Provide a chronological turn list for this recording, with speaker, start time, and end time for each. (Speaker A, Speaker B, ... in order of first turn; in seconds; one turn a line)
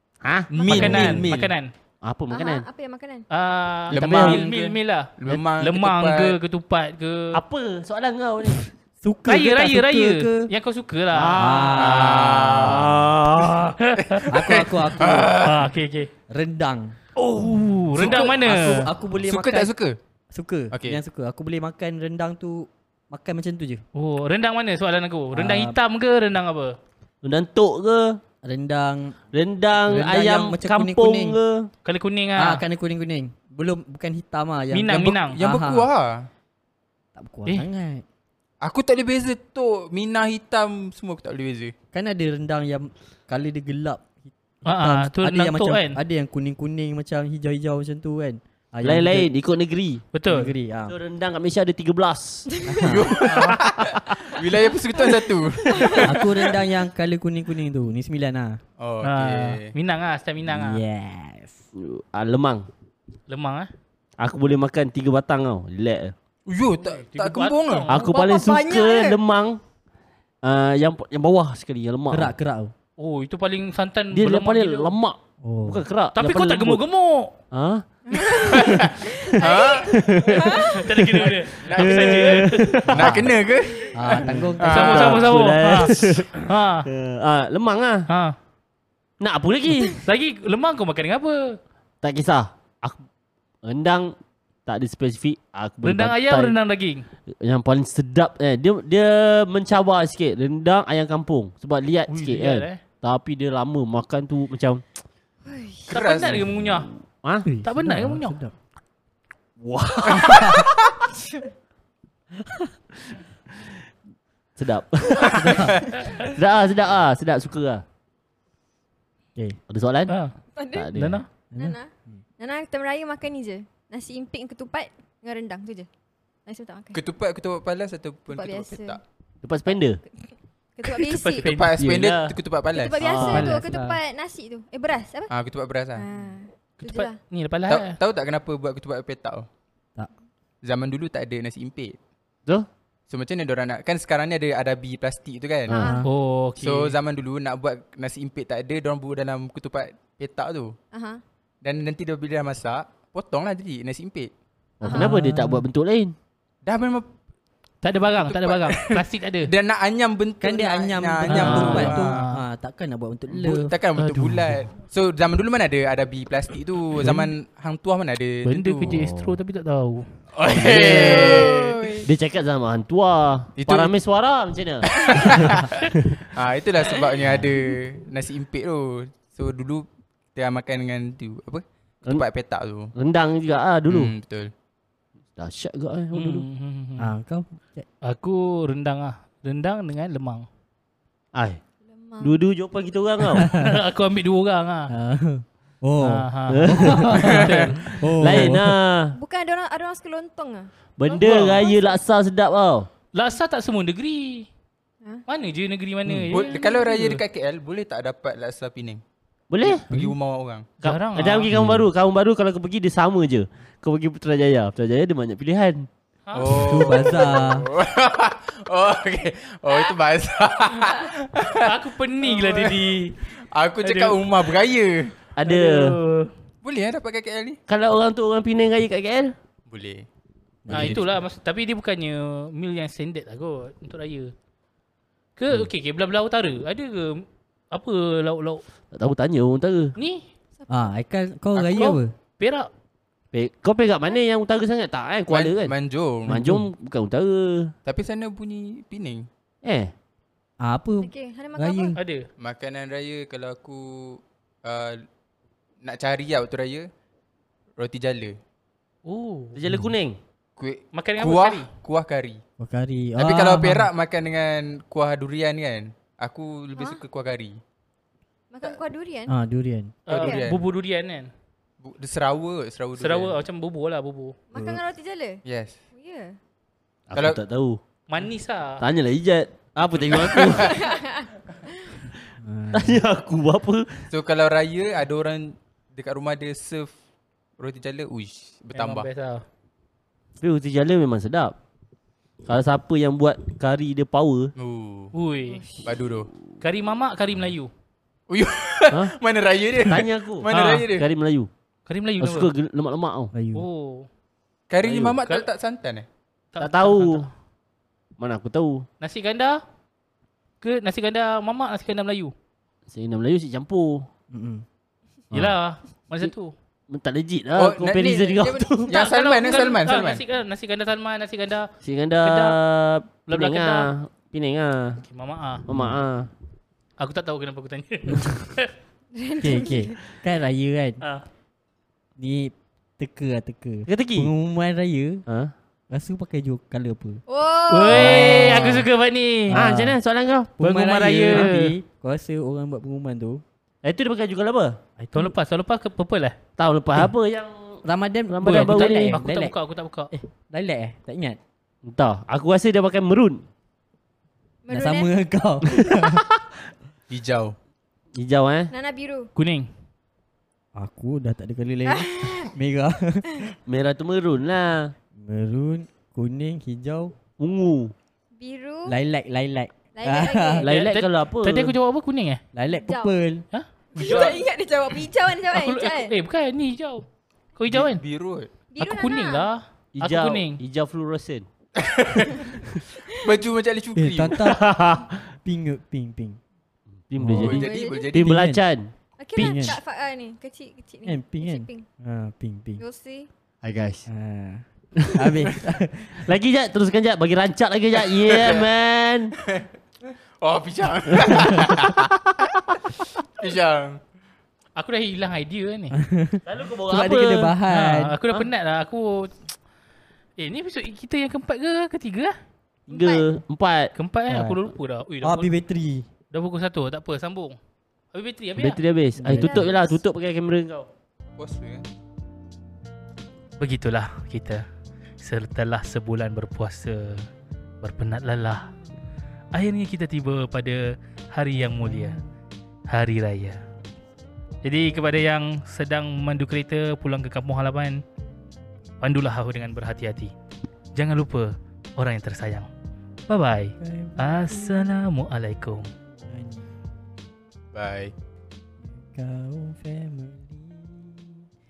Speaker A: 0.2-1.3
Speaker B: 0.5-1.5
Speaker C: 0.6-1.7
Speaker A: 2.0-2.6
Speaker D: 2.3-3.2
Speaker C: 3.3-7.4
Speaker B: 3.9-6.4
Speaker A: 3.9-4.4
Speaker A: 7.3-8.7
Speaker E: 9.0-10.5
Speaker C: 9.3-11.5
Speaker A: 11.1-13.8
Speaker E: 11.3-12.8
Speaker B: 11.8-13.4
Speaker C: 13.8-14.3
Speaker B: 14.0-15.7
Speaker E: 14.3-15.4
Speaker C: 15.4-16.1
Speaker E: 16.3-17.0
Speaker C: 17.2-18.9
Speaker B: 18.0-18.4
Speaker E: 18.0-19.7
Speaker B: 19.2-20.0
Speaker E: 20.3-23.8
Speaker B: 20.7-21.0
Speaker C: 23.9-26.8
Speaker E: 25.3-25.8
Speaker A: 27.2-28.2
Speaker E: 28.4-29.1
Speaker A: 29.3-31.7
Speaker E: 29.8-31.4
Speaker C: 31.8-32.6
Speaker E: 32.4-35.9
Speaker C: 34.7-35.4
Speaker B: 35.1-36.3
Speaker E: 37.1-38.0
Speaker B: 38.6-41.7
Speaker E: 41.9-49.3
Speaker C: 44.6-46.0
Speaker A: 48.8-50.0
Speaker C: 50.1-50.5
Speaker E: 50.3-51.0
Speaker A: 50.9-52.5
Speaker D: 52.5-52.8
Speaker E: 52.6-53.2
Speaker B: 52.8-56.2
Speaker C: 53.3-53.6
Speaker D: 55.7-56.0
Speaker E: 56.0-58.6
Speaker B: 58.8-59.7
Speaker C: 59.0-60.8
Speaker E: 60.5-61.6
Speaker A: 61.8-62.7
Speaker C: 63.3-63.7
Speaker A: 64.2-66.1
Speaker B: 66.5-67.9
Speaker C: 66.8-68.1
Speaker A: 67.9-69.6
Speaker D: 68.0-69.2
Speaker A: 70.4-72.3
Speaker E: 72.1-72.7
Speaker C: 73.0-74.9
Speaker A: 74.1-76.8
Speaker E: 75.4-75.8
Speaker C: 76.1-77.3
Speaker A: 77.5-77.8
Speaker D: 78.1-80.8
Speaker B: 78.5-80.0
Speaker A: 79.8-83.3
Speaker C: 80.5-82.9
Speaker B: 81.5-84.0
Speaker E: 82.9-83.3
Speaker E: 83.9-85.1
Speaker A: 84.1-88.0
Speaker B: 84.6-85.3
Speaker C: 84.6-86.9
Speaker C: 88.1-88.3
Speaker A: 89.2-90.0
Speaker C: 90.0-91.6
Speaker A: 92.0-93.0
Speaker A: 93.6-94.1
Speaker A: 94.7-96.5
Speaker C: 95.8-97.0
Speaker A: 97.3-104.8
Speaker C: 102.1-102.8
Speaker D: 105.4-105.9
Speaker B: 105.9-106.4
Speaker C: 105.9-106.9
Speaker A: 106.3-107.5
Speaker E: 107.5-108.5
Speaker C: 107.6-108.4
Speaker A: 109.6-110.4
Speaker E: 110.0-110.7
Speaker B: 110.0-110.7
Speaker E: 112.5-112.7
Speaker A: 114.5-117.8
Speaker E: 115.3-115.8
Speaker B: 115.4-115.8
Speaker A: 119.7-120.1
Speaker C: 120.1-120.3
Speaker D: 120.5-120.9
Speaker A: 120.7-121.2
Speaker C: 120.9-121.3
Speaker E: 121.5-122.2
Speaker D: 121.6-125.9
Speaker D: 126.5-127.0
Speaker B: 126.9-129.0
Speaker D: 128.3-129.0
Speaker A: 129.4-130.0
Speaker D: 129.7-131.5
Speaker C: 130.9-131.7
Speaker B: 131.4-133.1
Speaker A: 131.8-132.4
Speaker D: 132.7-135.3
Speaker A: 133.0-133.6
Speaker C: 133.3-133.6
Speaker E: 133.3-134.0
Speaker B: 135.3-136.1
Speaker D: 135.9-137.2
Speaker C: 136.8-138.0
Speaker B: 137.7-139.5
Speaker B: 140.6-142.0
Speaker B: 143.1-145.8
Speaker A: 145.7-145.9
Speaker D: 145.7-146.1
Speaker E: 145.8-146.1
Speaker C: 146.0-146.9
Speaker B: 146.6-150.8
Speaker D: 150.9-151.2
Speaker B: 151.6-154.3
Speaker A: 154.8-156.1
Speaker D: 154.8-155.1
Speaker E: 154.9-155.6
Speaker B: 156.6-157.1
Speaker C: 157.8-159.5
Speaker B: 158.2-162.2
Speaker E: 160.4-163.7
Speaker C: 161.3-162.4
Speaker A: 161.3-162.0
Speaker B: 163.3-168.9
Speaker C: 163.9-164.7
Speaker C: 168.4-170.1
Speaker A: 168.8-169.4
Speaker B: 170.3-172.0
Speaker A: 170.4-176.1
Speaker B: 173.6-173.9
Speaker B: 174.8-182.9
Speaker A: 182.9-184.1
Speaker B: 183.9-184.5
Speaker A: 185.4-186.4
Speaker C: 186.1-187.1
Speaker E: 187.0-187.9
Speaker C: 188.0-190.5
Speaker A: 191.3-191.6
Speaker D: 191.9-192.4
Speaker A: 192.2-193.5
Speaker E: 193.3-193.8
Speaker C: 193.4-194.9
Speaker E: 194.9-198.8
Speaker C: 196.0-197.9
Speaker A: 196.5-199.2
Speaker B: 197.2-197.8
Speaker D: 199.1-200.7
Speaker A: 201.0-202.9
Speaker C: 201.1-201.7
Speaker D: 201.6-202.0
Speaker C: 203.1-204.5
Speaker C: 205.3-207.2
Speaker B: 206.3-209.0
Speaker D: 206.5-206.8
Speaker A: 209.5-209.9
Speaker B: 209.6-210.7
Speaker E: 209.9-210.2
Speaker C: 210.8-211.8
Speaker A: 210.8-215.9
Speaker E: 211.6-211.8
Speaker C: 216.3-217.1
Speaker B: 216.3-222.9
Speaker E: 216.6-217.7
Speaker C: 221.6-223.2
Speaker B: 223.5-225.1
Speaker C: 223.8-224.2
Speaker A: 225.3-225.9
Speaker C: 225.4-226.3
Speaker B: 226.6-227.6
Speaker A: 227.7-229.3
Speaker B: 229.7-230.1
Speaker E: 230.6-231.1
Speaker C: 230.7-234.3
Speaker C: 235.4-238.6
Speaker A: 238.9-239.9
Speaker C: 239.9-240.3
Speaker E: 240.7-242.1
Speaker B: 241.6-241.8
Speaker C: 241.7-242.7
Speaker A: 243.3-245.8
Speaker B: 245.3-246.3
Speaker E: 246.3-246.7
Speaker A: 246.3-247.7
Speaker B: 247.8-249.3
Speaker A: 249.6-249.9
Speaker E: 250.6-252.0
Speaker D: 251.0-252.0
Speaker C: 251.9-252.3
Speaker B: 252.4-255.0
Speaker B: 255.8-256.9
Speaker B: 257.8-258.4
Speaker C: 259.1-259.6
Speaker A: 259.6-260.2
Speaker E: 259.7-259.9
Speaker B: 260.6-262.4
Speaker C: 260.9-261.7
Speaker E: 262.6-263.9
Speaker B: 263.2-267.6
Speaker D: 266.8-267.0
Speaker D: 268.5-269.3
Speaker E: 269.3-270.0
Speaker C: 270.1-271.3
Speaker B: 270.1-270.6
Speaker D: 270.2-270.4
Speaker B: 271.8-273.4
Speaker C: 273.0-274.3
Speaker D: 274.5-275.4
Speaker E: 274.5-274.8
Speaker B: 275.4-275.8
Speaker D: 275.9-276.4
Speaker A: 277.1-277.8
Speaker B: 277.1-277.4
Speaker C: 278.1-278.8
Speaker A: 278.8-280.8
Speaker B: 280.1-280.8
Speaker D: 280.7-281.3
Speaker E: 282.4-283.0
Speaker A: 282.7-283.9
Speaker B: 284.1-286.9
Speaker B: 287.6-289.1
Speaker C: 288.7-289.4
Speaker A: 290.4-291.5
Speaker A: 292.4-294.5
Speaker B: 294.6-295.1
Speaker C: 295.1-295.7
Speaker B: 295.8-296.3
Speaker C: 296.6-297.7
Speaker B: 298.3-301.1
Speaker A: 299.9-301.5
Speaker C: 300.5-300.9
Speaker C: 301.9-302.5
Speaker A: 302.2-303.3
Speaker E: 303.3-303.7
Speaker C: 303.5-304.1
Speaker B: 304.7-306.1
Speaker A: 304.8-305.1
Speaker C: 305.2-305.4
Speaker C: 306.5-307.3
Speaker A: 306.6-307.3
Speaker A: 308.2-308.9
Speaker C: 309.0-309.6
Speaker C: 310.6-312.3
Speaker A: 312.9-314.1
Speaker E: 314.3-314.6
Speaker C: 315.3-316.5
Speaker A: 316.9-318.9
Speaker B: 317.6-320.2
Speaker C: 318.9-321.7
Speaker A: 321.8-325.0
Speaker C: 322.2-322.6
Speaker C: 323.3-323.9
Speaker C: 325.0-325.6
Speaker A: 325.6-326.3
Speaker E: 325.7-326.0
Speaker C: 327.0-328.7
Speaker D: 329.1-329.9
Speaker E: 329.4-331.0
Speaker E: 332.2-335.2
Speaker A: 333.9-334.3
Speaker A: 335.3-335.5
Speaker E: 335.9-337.2
Speaker D: 337.3-338.5
Speaker C: 337.7-339.6
Speaker E: 337.9-338.9
Speaker E: 339.5-340.0
Speaker A: 339.5-340.6
Speaker E: 340.6-343.4
Speaker C: 340.6-341.8
Speaker A: 343.8-344.8
Speaker E: 345.0-345.3
Speaker C: 345.1-346.4
Speaker A: 346.6-349.2
Speaker E: 347.8-349.5
Speaker C: 348.4-350.1
Speaker E: 350.1-351.4
Speaker A: 351.8-353.4
Speaker D: 354.6-355.1
Speaker E: 354.7-356.3
Speaker B: 357.1-357.5
Speaker A: 358.1-358.7
Speaker D: 358.7-359.3
Speaker C: 359.4-359.7
Speaker E: 360.7-363.5
Speaker D: 361.9-362.5
Speaker A: 363.7-364.9
Speaker E: 365.1-367.1
Speaker A: 367.4-367.9
Speaker D: 368.4-368.9
Speaker E: 368.9-370.6
Speaker D: 369.9-370.7
Speaker A: 370.6-371.8
Speaker C: 370.6-372.4
Speaker E: 372.5-373.4
Speaker D: 372.7-373.1
Speaker D: 373.9-376.1
Speaker B: 374.0-374.4
Speaker C: 375.5-377.0
Speaker C: 377.6-378.0
Speaker B: 377.7-378.5
Speaker D: 378.7-379.5
Speaker C: 378.8-380.6
Speaker A: 379.9-381.4
Speaker B: 381.8-384.4
Speaker E: 383.9-386.4
Speaker A: 384.4-385.1
Speaker A: 387.1-389.7
Speaker E: 387.1-388.6
Speaker B: 387.3-388.3
Speaker D: 387.5-388.1
Speaker D: 389.2-391.9
Speaker E: 389.4-389.8
Speaker E: 391.1-392.8
Speaker D: 392.8-393.3
Speaker A: 393.6-394.1
Speaker E: 394.1-396.2
Speaker A: 395.0-395.4
Speaker A: 396.1-399.3
Speaker B: 398.0-398.7
Speaker B: 399.4-399.7
Speaker B: 400.4-402.1
Speaker A: 401.1-402.2
Speaker B: 403.4-404.0
Speaker C: 404.8-405.9
Speaker E: 405.9-408.2
Speaker A: 406.4-407.6
Speaker C: 407.7-409.4
Speaker C: 410.4-412.3
Speaker A: 412.9-413.9
Speaker D: 412.9-413.3
Speaker C: 413.9-415.5
Speaker E: 414.3-414.6
Speaker E: 415.2-416.1
Speaker C: 416.3-417.6
Speaker C: 418.1-418.8
Speaker A: 418.6-420.9
Speaker E: 419.2-419.8
Speaker B: 421.4-421.9
Speaker C: 423.6-424.6
Speaker C: 425.2-427.2
Speaker C: 427.8-428.7
Speaker C: 429.5-432.2
Speaker E: 431.6-432.2
Speaker C: 432.9-433.6
Speaker C: 434.6-438.0
Speaker C: 439.0-440.3
Speaker C: 440.9-442.7
Speaker C: 443.3-445.9
Speaker E: 443.8-445.1
Speaker E: 446.1-446.8
Speaker B: 447.7-448.1
Speaker E: 448.8-451.5